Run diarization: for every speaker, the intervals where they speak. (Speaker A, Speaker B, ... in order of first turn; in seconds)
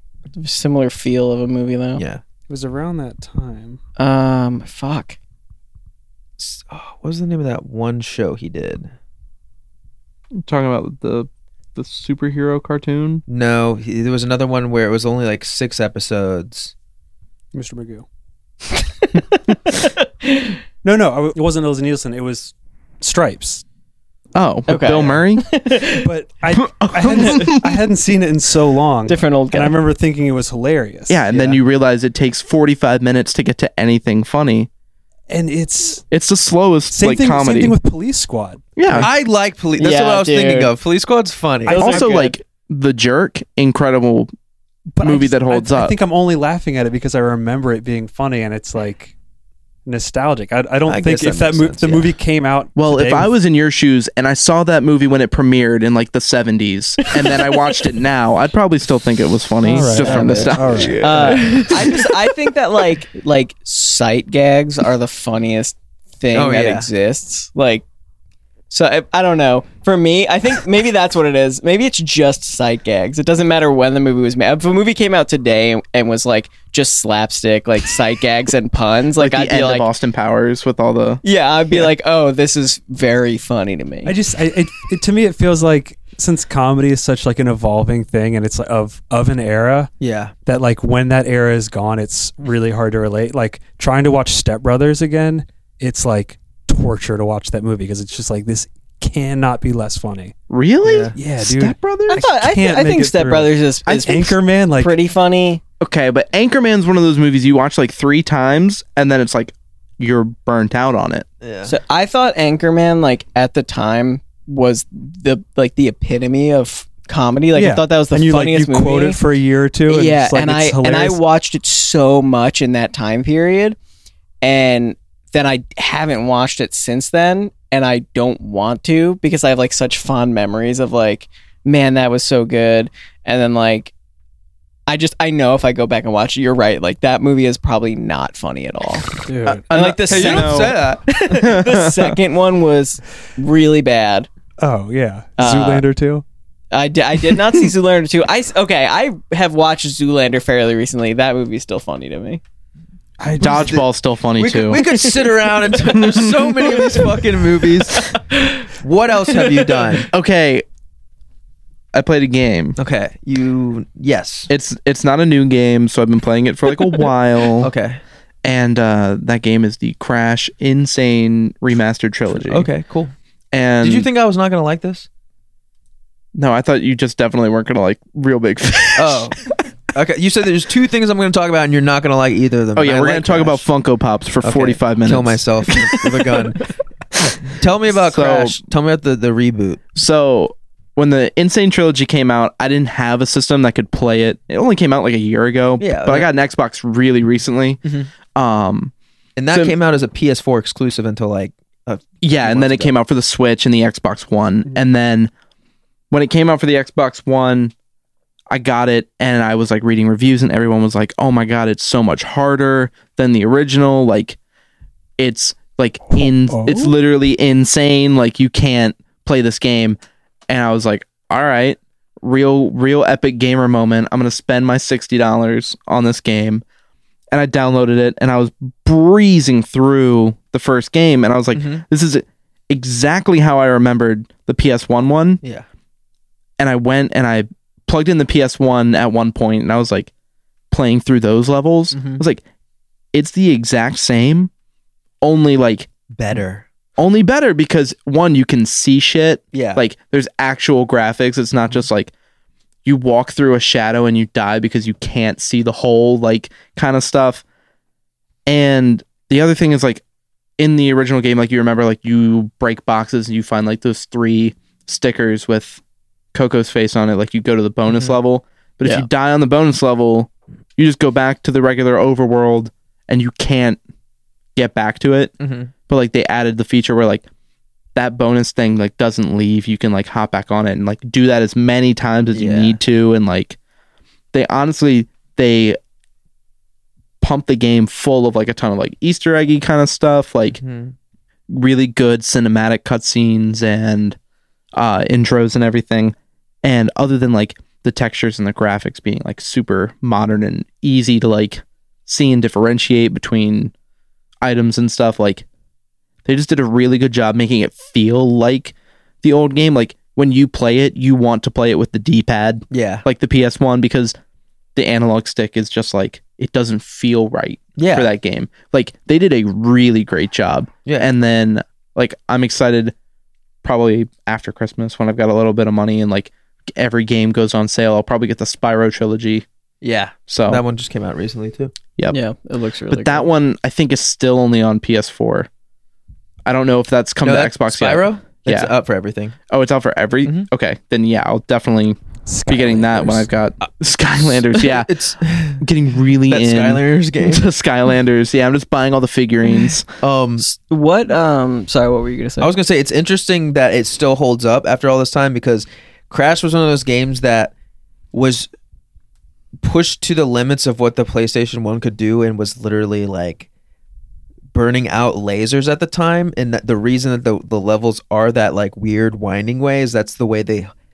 Speaker A: 0.3-2.0, 4.0-5.2, 18.8-19.4, 20.0-20.6, 24.7-26.1, 29.1-29.8, 39.8-40.7, 41.7-42.4, 60.0-67.8, 68.7-79.9, 81.2-84.1, 102.1-105.6, 111.7-119.2, 119.9-123.8, 124.4-133.9, 134.9-139.1, 139.7-144.3, 145.4-145.8, 146.7-152.4, 332.1-333.3, 350.4-352.5
Speaker B: 1.9-2.2, 6.4-8.9, 13.3-16.7, 39.0-42.0, 50.9-52.2, 60.0-62.0, 66.3-66.9, 90.0-90.3, 100.8-101.9, 111.4-111.8, 140.1-141.4, 153.4-153.9, 154.4-160.1, 162.8-164.5, 167.6-168.0, 172.3-173.1, 173.8-175.1, 178.9-179.4, 179.9-183.7, 184.4-186.6, 187.5-189.8, 195.8-196.3, 197.8-198.1, 199.4-202.9, 231.5-231.8, 241.9-242.2, 246.1-246.7, 249.5-249.8, 267.9-268.2, 275.4-275.7, 282.3-282.8, 290.5-290.9, 312.7-313.1, 317.8-318.1, 329.8-331.7, 337.2-339.4, 344.3-345.6, 346.3-347.4, 350.0-350.4, 352.4-357.5, 358.1-358.5, 359.6-363.5, 364.5-370.7
Speaker C: 2.5-3.8, 17.5-18.1, 20.8-23.6, 26.0-31.5, 35.3-36.0, 36.9-39.1, 41.7-42.2, 44.9-49.1, 49.9-53.3, 59.6-61.7, 84.0-89.9, 90.5-100.3, 101.1-103.5, 104.0-104.9, 117.5-121.2, 139.3-139.6, 144.6-146.2, 153.2-153.8, 216.1-216.9, 342.3-343.3
Speaker D: 10.4-13.2, 24.4-25.4, 26.6-27.9, 31.1-34.7, 36.1-37.7, 38.8-39.1, 41.8-44.3, 45.0-46.0, 52.8-61.1, 79.2-81.2, 100.5-101.4, 103.9-104.1, 105.8-111.3, 139.5-140.8, 141.4-142.1, 153.4-154.8, 160.1-160.6, 161.9-162.8, 164.5-167.7, 168.4-172.7, 173.5-174.1, 176.3-179.3, 182.7-186.3, 187.9-188.6, 189.9-197.8, 198.3-198.9, 202.2-205.3, 206.1-207.7, 208.5-214.4, 215.2-220.0, 220.5-226.6, 227.3-235.4, 236.6-240.1, 240.7-242.4, 243.1-244.5, 245.2-245.9, 247.0-252.1, 252.8-257.4, 258.5-260.0, 260.6-265.8, 266.3-273.8, 274.6-275.4, 275.9-277.2, 277.9-283.6, 284.3-285.8, 287.2-290.6, 291.5-294.2, 294.7-303.7, 304.4-305.4, 306.3-314.2, 314.8-322.9, 323.6-329.4, 330.3-330.6, 332.9-335.5, 336.4-338.7, 339.5-344.9, 345.6-349.9